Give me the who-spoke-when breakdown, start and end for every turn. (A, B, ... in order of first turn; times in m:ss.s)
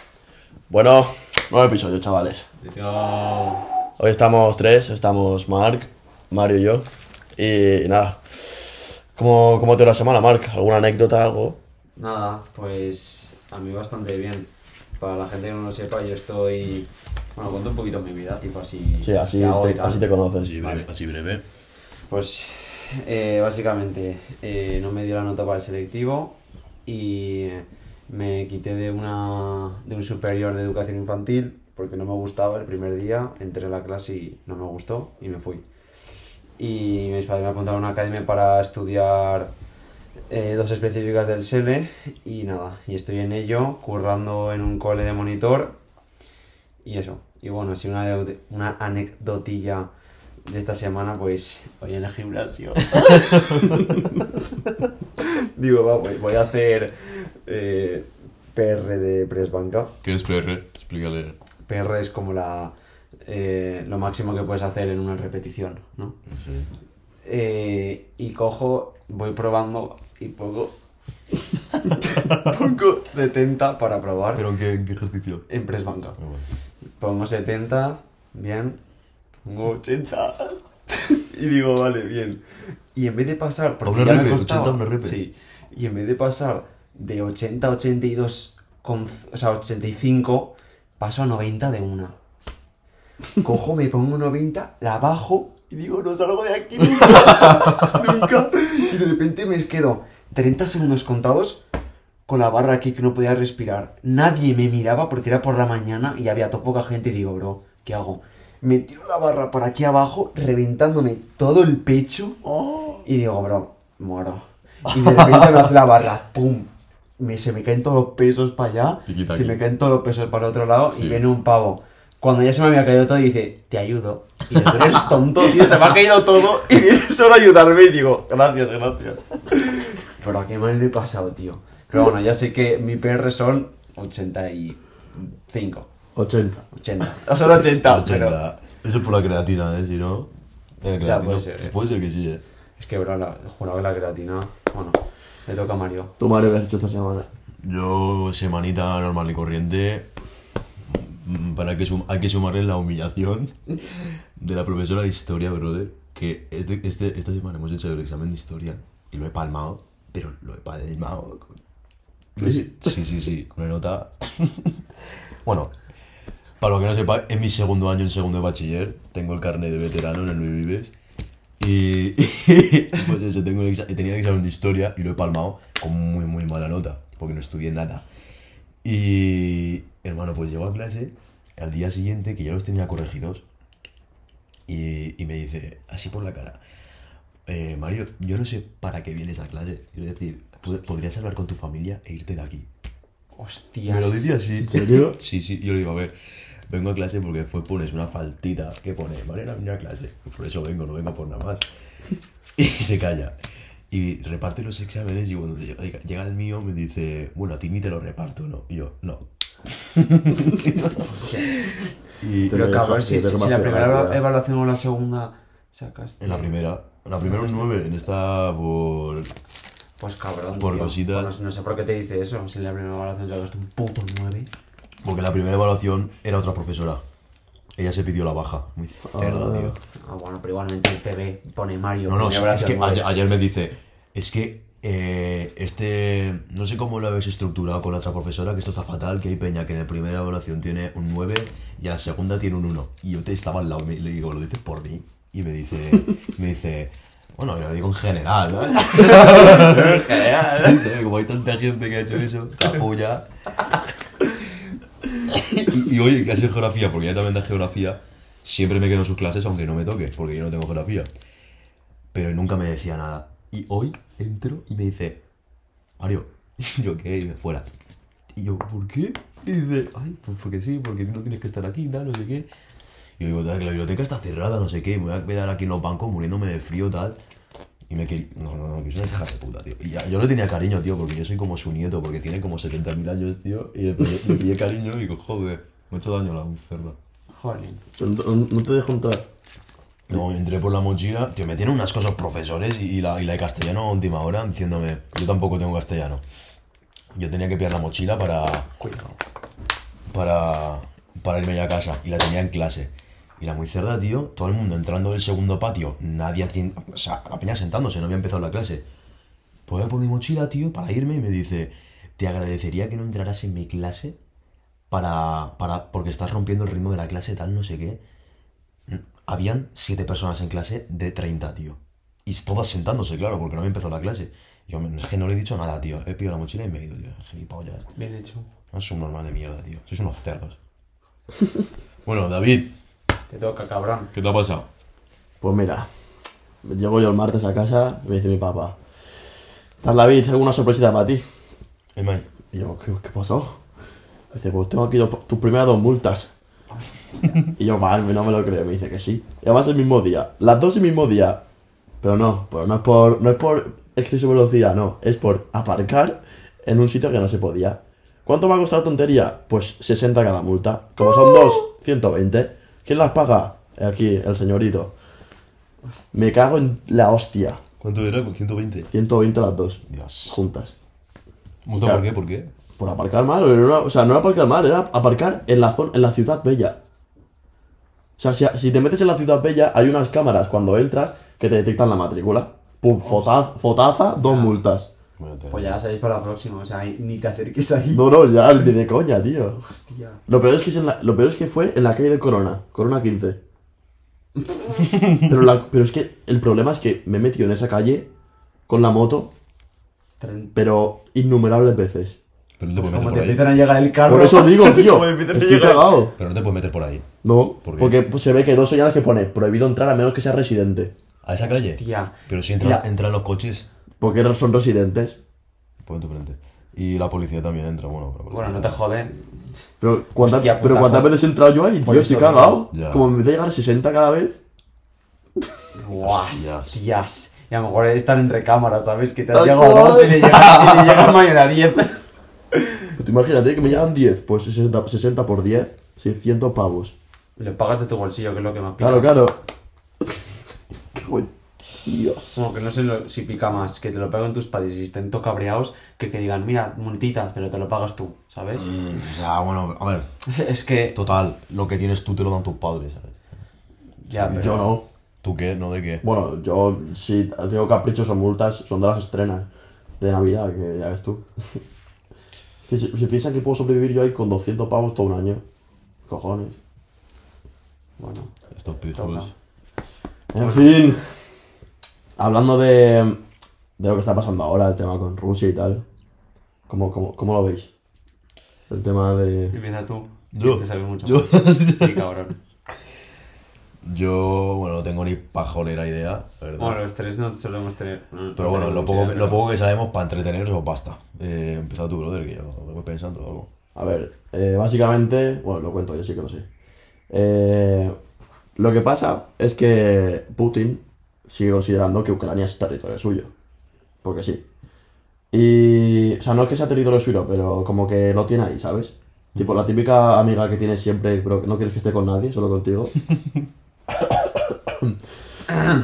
0:00.7-0:02.5 A
0:02.6-0:03.6 B
0:04.0-0:11.6 A
0:12.0-0:20.1 B
0:19.0-0:20.6 A
0:20.4-0:21.4 C
0:20.6-0:20.9 B
0:22.1-0:35.6 B
0:36.6-0:39.5 B
0:40.3-0:45.8 B
0:46.8-0:49.9 B
0:50.4-0:54.3 B
0:53.2-0:53.8 C
0:55.2-0:59.9 B
1:00.0-1:01.4 C
1:01.7-1:02.7 B
1:03.2-1:06.2 B
1:06.3-1:06.7 C
1:07.2-1:10.8 B
1:12.0-1:14.4 B
1:14.3-1:15.4 C
1:15.5-1:16.2 B
1:16.2-1:16.4 C
1:17.0-1:18.8 B
1:19.4-1:22.4 B
1:22.9-1:32.2 B
1:23.8-1:25.2 C
1:33.4-1:41.6 B
1:42.3-1:52.4 B
1:53.0-2:15.9 B
1:55.1-1:55.4 C
1:59.1-1:59.6 C
2:00.9-2:01.2 C
2:16.1-2:16.7 A
2:16.7-2:18.4 B
2:17.8-2:20.3 C
2:20.8-2:22.4 C
2:21.0-2:21.8 B
2:22.8-2:26.1 B
2:26.2-2:27.3 A
2:27.6-2:30.1 C
2:30.9-2:41.6 C
2:42.4-2:44.8 C
2:42.4-2:42.9 A
2:45.4-2:45.7 C
2:46.6-2:50.9 C
2:51.6-2:58.0 C
2:58.8-3:03.4 C
3:04.7-3:06.6 C
3:07.5-3:12.7 C
3:13.3-3:14.3 B
3:13.9-3:16.1 C
3:14.6-3:15.2 A
3:16.7-3:21.7 C
3:22.6-3:23.3 C
3:23.9-3:31.0 C
3:31.0-3:31.5 B
3:32.2-3:32.7 C
3:32.5-3:34.2 A
3:32.5-3:36.5 B
3:36.2-3:39.3 C
3:37.2-3:37.6 B
3:40.0-3:44.5 B
3:40.6-3:41.3 C
3:45.0-3:47.0 C
3:47.8-3:49.7 C
3:49.1-3:49.8 A
3:50.0-3:53.1 B
3:52.1-4:13.8 C
4:08.9-4:10.8 B
4:15.3-4:21.1 C
4:22.1-4:25.2 C
4:26.0-4:27.6 C
4:28.4-4:32.5 C
4:33.2-4:37.2 C
4:37.9-4:47.0 C
4:47.3-4:47.8 B
4:48.0-4:49.2 A
4:50.1-4:56.2 C
4:57.1-4:58.7 C
4:58.8-4:59.1 B
5:00.1-5:08.8 C
5:09.7-5:14.2 C
5:14.9-5:18.0 C
5:18.9-5:27.9 C
5:28.0-5:28.5 B
5:28.7-5:30.6 C
5:32.0-5:32.7 C
5:33.3-5:34.1 B
5:34.1-5:34.6 C
5:35.4-5:35.9 A
5:36.6-5:38.8 A
5:39.8-5:41.2 A
5:41.9-5:42.2 C
5:42.5-5:43.6 A
5:44.3-5:46.3 A
5:47.5-5:51.4 A
5:52.0-6:04.9 A
6:06.1-6:07.6 A
6:07.8-6:08.9 C
6:08.9-6:10.8 A
6:09.9-6:10.4 C
6:11.6-6:12.5 C
6:11.8-6:12.0 A
6:12.8-6:16.8 A
6:18.2-6:24.9 A
6:23.0-6:23.4 B
6:24.2-6:24.6 B
6:25.2-6:25.8 C
6:25.5-6:28.1 B
6:27.9-6:29.7 A
6:29.7-6:30.2 B
6:30.3-6:33.4 A
6:34.4-6:34.9 B
6:35.1-6:38.1 A
6:38.7-6:39.3 A
6:40.2-6:40.6 B
6:40.5-6:42.2 A
6:42.6-6:43.5 C
6:42.8-6:46.1 B
6:44.1-6:46.1 A
6:46.2-6:47.1 C
6:47.2-6:50.9 A
6:47.6-6:48.0 C
6:51.2-6:53.7 C
6:51.4-6:52.8 B
6:54.0-6:55.2 A
6:55.8-6:58.8 C
6:58.3-6:59.4 B
6:59.8-7:04.4 A
7:00.2-7:01.2 B
7:01.8-7:02.6 B
7:02.7-7:03.0 C
7:05.8-7:13.0 B
7:06.0-7:06.8 C
7:09.3-7:11.0 A
7:13.0-7:16.9 A
7:17.4-7:19.1 B
7:18.8-7:19.4 A
7:20.9-7:22.4 A
7:22.3-7:28.7 B
7:28.6-7:30.1 C
7:30.2-7:31.0 B
7:30.9-7:33.2 C
7:34.0-7:34.7 B
7:34.1-7:34.7 C
7:34.3-7:34.8 A
7:35.2-7:36.0 C
7:36.0-7:39.5 A
7:40.0-7:41.6 A
7:42.6-7:45.4 A
7:46.1-7:46.6 A
7:48.0-7:48.3 B
7:48.5-7:49.3 C
7:48.9-7:49.3 B
7:50.3-7:51.1 A
7:50.4-7:50.7 B
7:52.2-7:53.2 A
7:53.8-7:55.8 A
7:56.7-7:57.7 A
7:58.7-7:59.6 A
7:59.5-8:02.4 B
8:00.3-8:02.0 C
8:03.8-8:06.8 C
8:06.6-8:09.4 B
8:08.4-8:13.5 C
8:13.8-8:16.5 A
8:17.1-8:18.0 A
8:18.6-8:23.3 A
8:24.0-8:24.4 A
8:25.3-8:33.0 A
8:33.9-8:35.0 A